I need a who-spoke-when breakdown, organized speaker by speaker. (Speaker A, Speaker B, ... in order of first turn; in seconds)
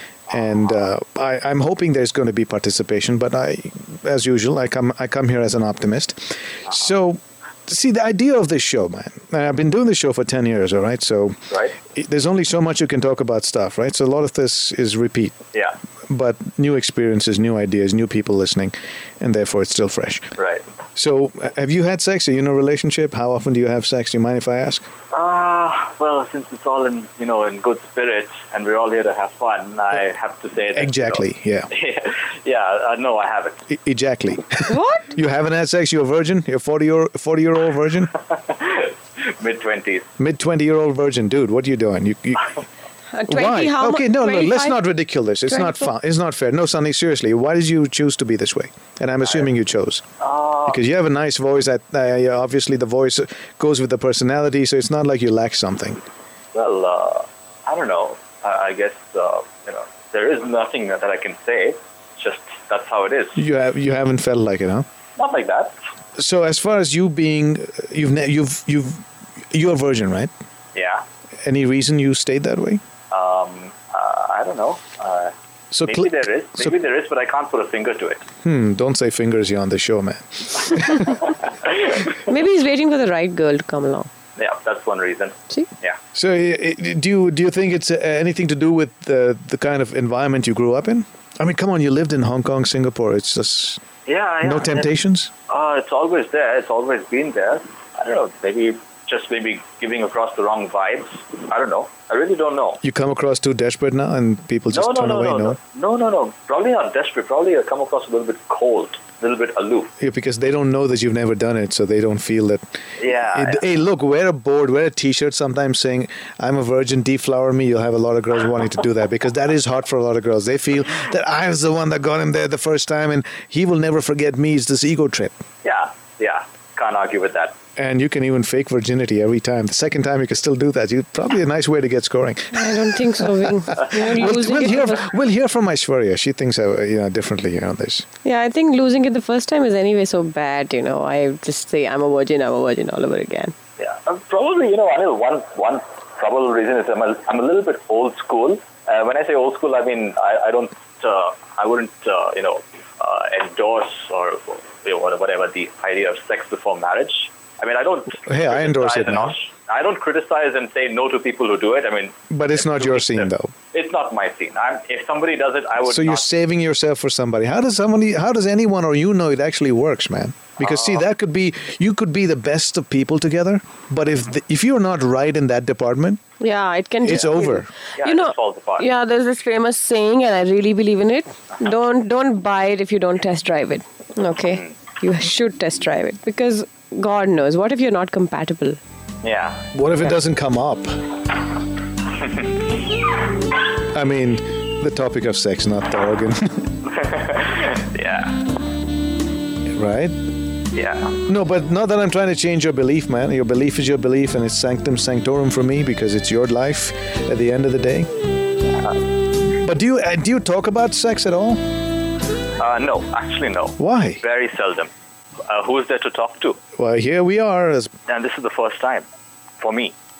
Speaker A: 0.3-11.4, 11.9-15.4, 16.1-20.3, 20.9-24.9, 30.7-31.7, 33.7-38.1, 40.2-42.5, 43.3-50.0, 50.7-56.0, 63.4-64.9, 66.2-70.3, 71.4-72.8, 75.7-76.7, 78.4-81.1, 86.1-93.8, 94.4-95.3, 102.8-105.6, 110.0-125.3, 127.8-138.1, 158.3-159.4, 162.3-163.5, 165.8-176.2, 177.0-177.7, 189.7-191.0, 193.9-196.6, 199.7-200.1, 201.2-208.1, 209.5-211.6, 213.8-214.2, 216.8-217.9
Speaker B: 20.4-20.6, 25.1-33.6, 38.4-40.1, 50.2-50.8, 56.5-63.4, 65.2-65.8, 70.7-71.0, 73.1-75.3, 75.8-78.2, 84.4-86.0, 94.1-94.9, 95.5-102.8, 104.7-109.9, 113.0-113.6, 125.6-127.6, 143.8-166.3, 170.6-171.0, 178.0-178.9, 189.2-189.7, 196.9-198.4, 200.7-201.2, 212.6-214.9, 215.5-216.6, 218.1-219.1, 219.6-219.9
Speaker C: 34.7-35.1, 43.1-44.8, 45.5-45.9, 82.3-84.1, 132.5-135.0, 138.2-143.5, 176.4-188.8